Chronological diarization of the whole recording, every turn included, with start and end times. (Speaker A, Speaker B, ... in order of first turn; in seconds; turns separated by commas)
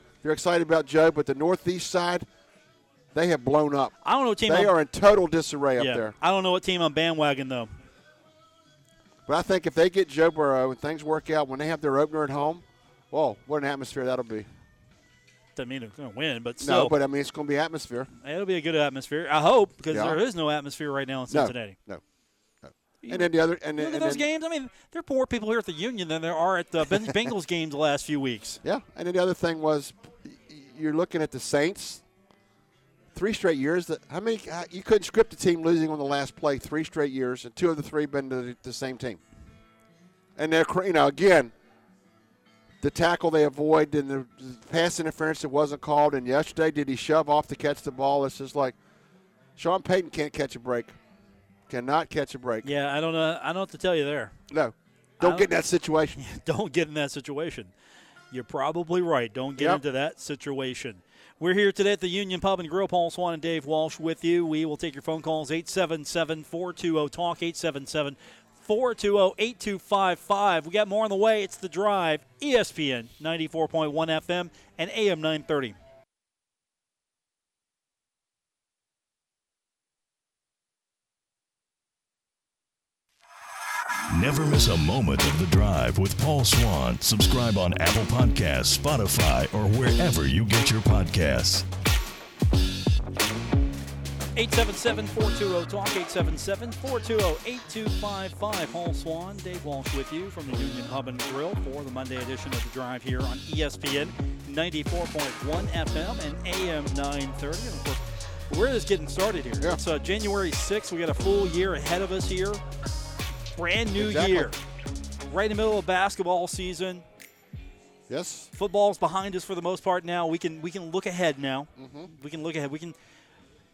Speaker A: 0.2-2.2, Speaker A: 3.1-6.1, Speaker B: 4.0-4.7, Speaker B: 5.8-7.7, Speaker A: 9.2-14.5, Speaker B: 15.6-16.9, Speaker A: 16.6-18.1, Speaker B: 18.2-21.8, Speaker A: 19.9-20.2, Speaker A: 21.3-22.0, Speaker A: 22.6-24.2, Speaker B: 23.0-28.6, Speaker A: 28.6-32.0, Speaker A: 33.1-39.2, Speaker A: 40.4-41.5, Speaker A: 42.8-48.8, Speaker A: 49.5-50.9, Speaker A: 51.7-52.7, Speaker B: 52.6-54.3, Speaker A: 54.5-56.2, Speaker B: 55.2-55.5, Speaker B: 56.1-57.7, Speaker B: 58.3-75.8, Speaker A: 59.6-59.8, Speaker C: 84.1-91.7, Speaker B: 94.3-112.6, Speaker B: 113.5-114.6, Speaker A: 114.0-114.5, Speaker B: 115.3-117.0, Speaker A: 118.1-118.5, Speaker B: 118.5-123.0, Speaker A: 121.8-122.1